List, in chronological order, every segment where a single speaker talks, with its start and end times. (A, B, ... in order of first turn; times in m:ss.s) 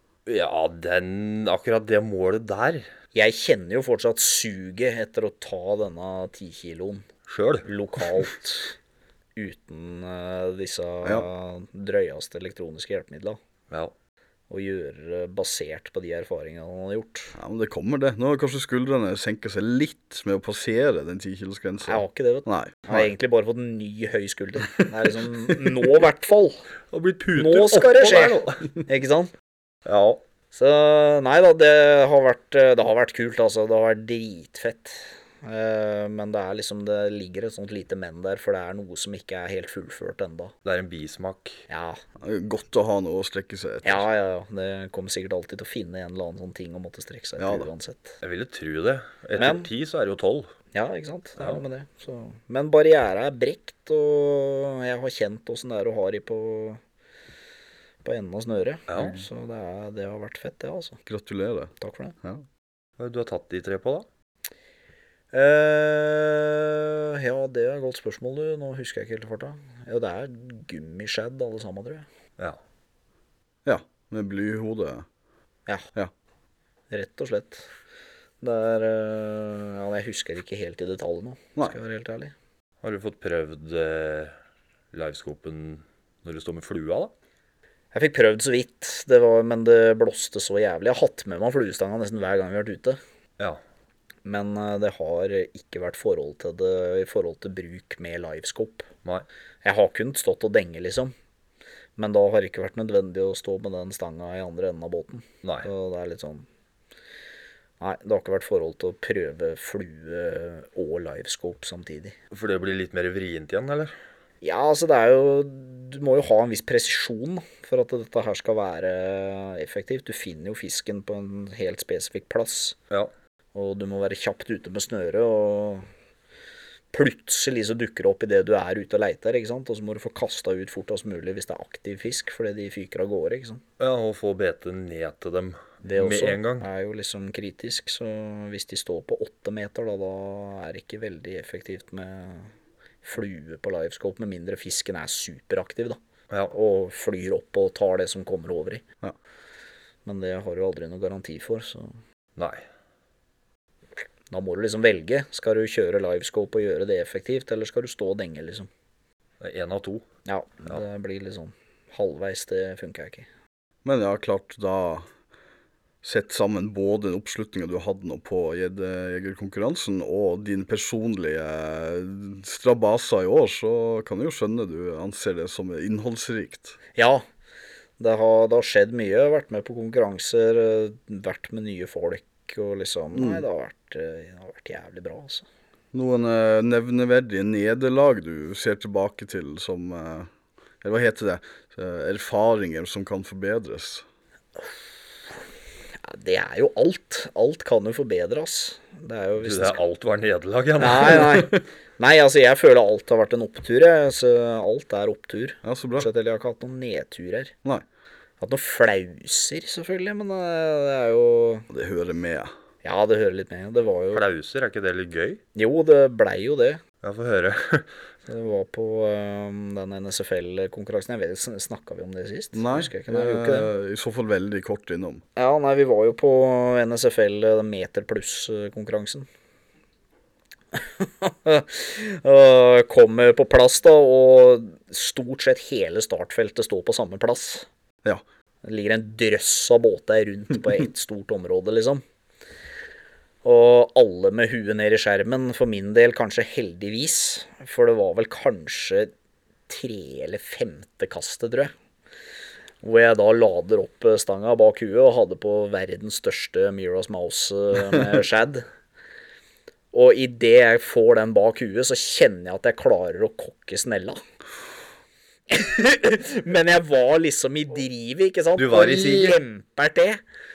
0:00.3-0:02.9 A
0:03.1-0:07.0 B
0:07.3-0:07.7 A
0:07.6-0:08.7 B
0:09.4-0:13.4 B
0:14.5-0:17.4 B
0:17.4-0:23.1 C
0:21.9-0:26.6 B
0:26.9-0:28.7 A
0:27.4-0:29.3 B
0:29.9-0:30.2 A
0:30.5-0:40.5 B
0:40.6-0:41.6 A
0:41.7-0:42.0 B
0:42.2-0:44.1 C
0:43.8-0:48.2 B
0:47.4-0:47.7 C
0:48.2-0:50.5 A
0:49.4-0:49.7 B
0:50.7-0:56.8 B
0:58.0-1:01.0 B
0:58.9-0:59.2 A
1:01.1-1:01.7 C
1:01.8-1:02.2 B
1:03.0-1:04.1 A
1:05.3-1:12.0 B
1:13.6-1:15.1 C
1:16.9-1:17.7 B
1:18.4-1:22.3 B
1:22.8-1:24.4 A
1:24.9-1:27.1 A
1:27.9-1:33.0 B
1:34.2-1:38.9 B
1:39.6-1:41.1 B
1:42.0-1:46.4 B
1:45.4-1:45.7 A
1:47.8-1:52.1 B
1:52.3-1:53.9 A
1:54.4-2:02.8 B
2:03.6-2:05.9 B
2:06.9-2:13.6 B
2:13.8-2:16.7 A
2:15.8-2:22.5 B
2:23.0-2:26.0 B
2:26.5-2:28.8 B
2:30.0-2:31.9 B
2:32.4-2:32.6 A
2:34.3-2:38.7 B
2:39.4-2:40.0 A
2:40.3-2:43.3 B
2:43.8-2:45.1 C
2:46.0-2:56.8 C
2:57.0-2:57.2 B
2:58.0-3:05.4 B
3:03.1-3:03.4 C
3:05.9-3:10.3 C
3:10.8-3:14.0 C
3:16.0-3:19.8 B
3:19.4-3:21.5 A
3:20.8-3:27.5 B
3:25.6-3:26.1 C
3:28.4-3:31.7 B
3:31.7-3:32.5 C
3:32.8-3:34.2 B
3:34.1-3:35.4 A
3:35.6-3:36.8 B
3:37.0-3:37.9 A
3:38.3-3:43.7 B
3:42.5-3:45.2 C
3:45.4-3:49.3 B
3:50.7-3:57.6 B
3:58.6-4:02.0 B
4:03.4-4:09.1 B
4:09.7-4:11.7 B
4:12.8-4:18.6 B
4:19.9-4:24.2 B
4:25.5-4:30.2 B
4:28.6-4:29.4 A